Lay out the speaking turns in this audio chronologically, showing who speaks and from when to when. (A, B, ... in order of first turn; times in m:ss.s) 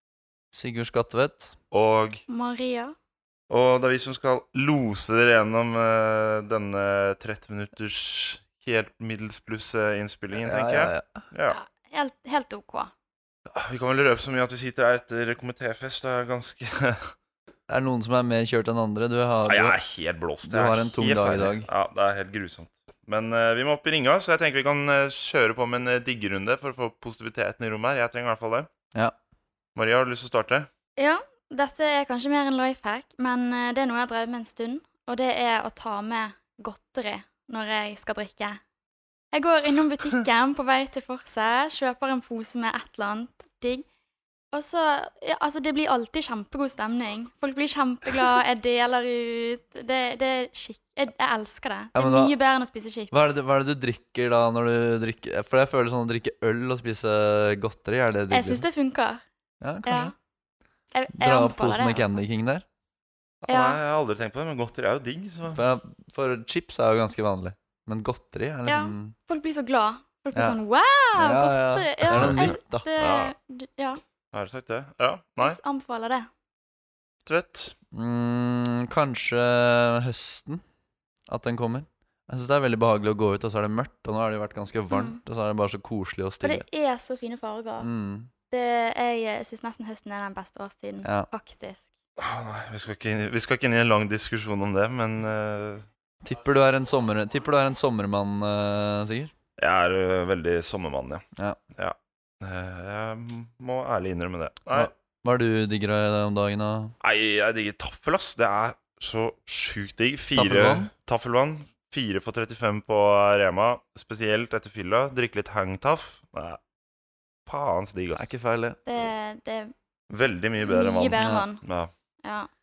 0:00.5-0:01.6 A
0:01.7-0:02.2 B
0:02.3-0:03.0 C
0:03.5-0:11.6 B
0:10.4-0:11.2 A
0:11.5-0:12.9 C
0:13.5-0:17.1 B
0:17.7-0:19.8 A
0:19.4-0:28.7 B
0:20.5-0:21.7 A
0:29.8-0:30.7 B
0:31.0-0:38.6 C
0:39.3-0:43.8 C
0:44.5-0:53.1 C
0:52.0-0:52.4 A
0:53.1-0:58.6 A
0:58.3-0:59.2 C
0:59.6-1:00.1 A
0:59.8-1:00.1 C
1:00.9-1:02.1 C
1:01.2-1:02.6 A
1:03.5-1:05.6 B
1:03.5-1:03.8 C
1:05.5-1:09.2 A
1:08.7-1:14.0 C
1:11.2-1:12.9 A
1:12.1-1:13.3 B
1:14.3-1:15.6 B
1:15.4-1:16.3 C
1:17.2-1:17.7 B
1:17.9-1:20.6 A
1:21.3-1:26.6 A
1:24.9-1:25.2 C
1:26.4-1:27.9 C
1:27.8-1:28.3 A
1:28.5-1:31.8 C
1:31.0-1:31.3 A
1:32.2-1:35.8 B
1:36.2-1:39.3 A
1:39.6-1:41.2 B
1:41.8-1:44.9 B
1:44.7-1:46.9 A
1:47.0-1:56.6 B
1:50.4-1:50.9 A
1:57.5-1:58.3 B
1:58.2-1:58.8 A
1:58.9-1:59.7 C
2:00.1-2:01.9 B
2:00.6-2:01.6 C
2:01.2-2:01.4 A
2:02.2-2:02.5 C